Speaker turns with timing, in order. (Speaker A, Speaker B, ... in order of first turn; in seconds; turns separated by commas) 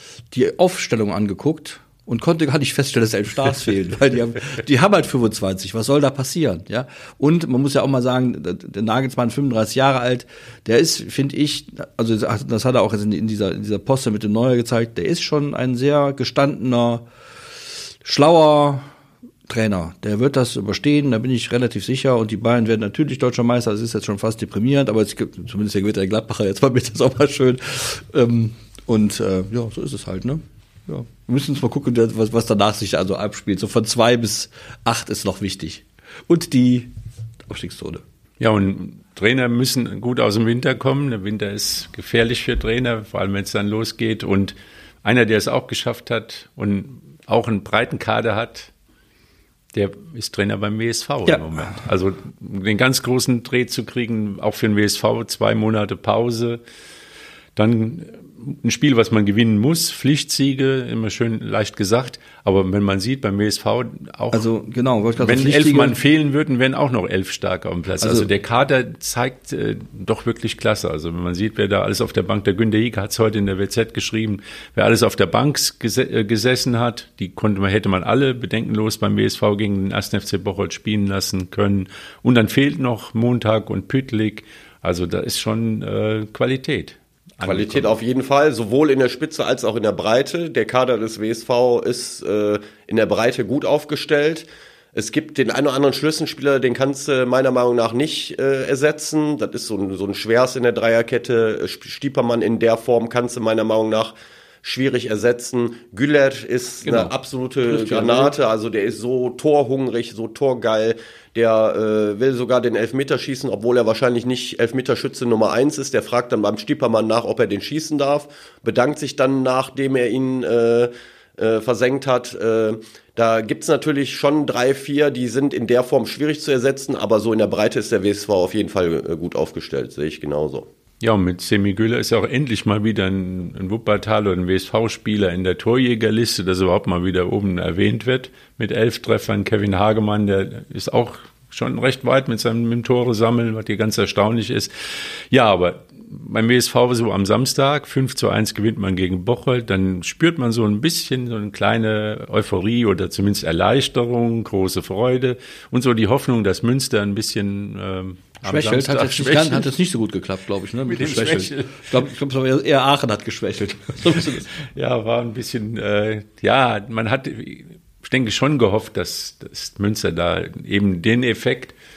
Speaker A: 0.3-17.0, Speaker A: 18.1-18.9, Speaker A: 19.5-36.9, Speaker A: 37.5-38.0, Speaker B: 38.4-48.7, Speaker B: 49.7-56.6, Speaker A: 51.3-51.8, Speaker B: 57.6-64.5, Speaker A: 64.3-66.0, Speaker B: 65.2-87.9, Speaker A: 68.0-68.3, Speaker C: 87.4-130.7, Speaker A: 106.8-107.1, Speaker A: 107.7-108.3, Speaker B: 131.0-159.7, Speaker A: 158.4-164.6, Speaker B: 160.9-161.9, Speaker B: 164.6-171.7